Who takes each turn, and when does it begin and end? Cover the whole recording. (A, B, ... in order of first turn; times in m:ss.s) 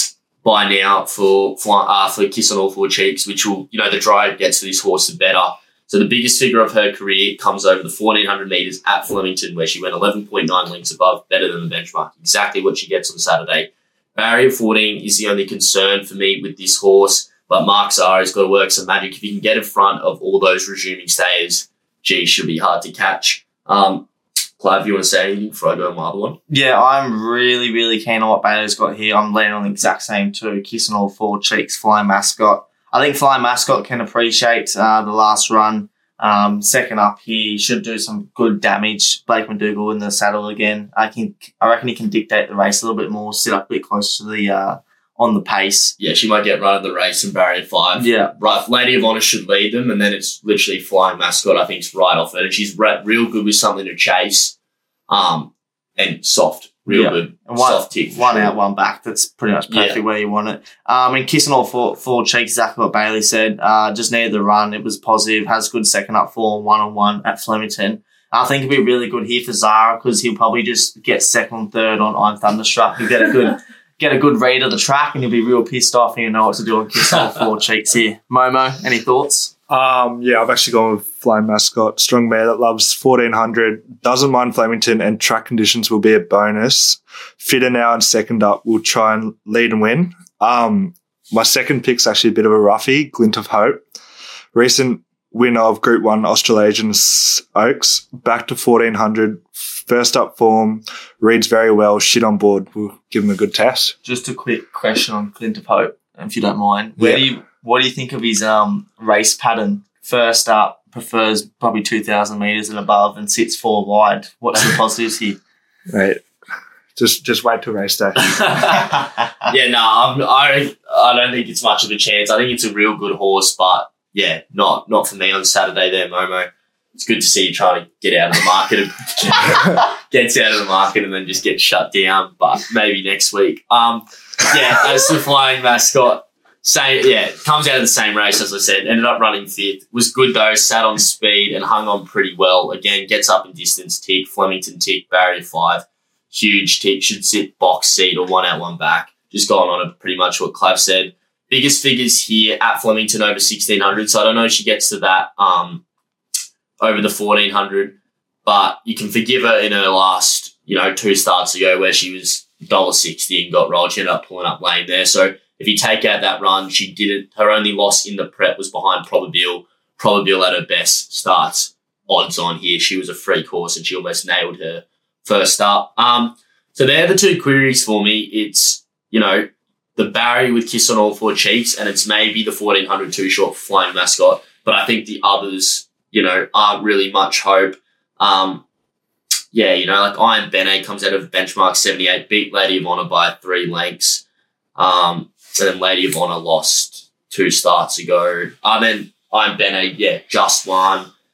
0:00.4-0:24.0 A
0:24.6-0:26.4 A
0:26.5-0:45.9 B
0:46.0-0:54.5 A
0:48.0-0:48.6 B
0:55.1-0:58.5 A
0:56.9-1:19.5 B
0:59.7-1:00.0 A
1:19.7-1:33.8 C
1:34.5-1:43.9 C
1:44.0-1:55.4 B
1:47.0-1:47.2 C
1:55.9-1:56.2 C
1:56.9-1:58.8 C
1:58.2-2:35.8 A
2:36.8-3:08.6 A
3:09.5-3:14.2 A
3:14.8-3:21.1 A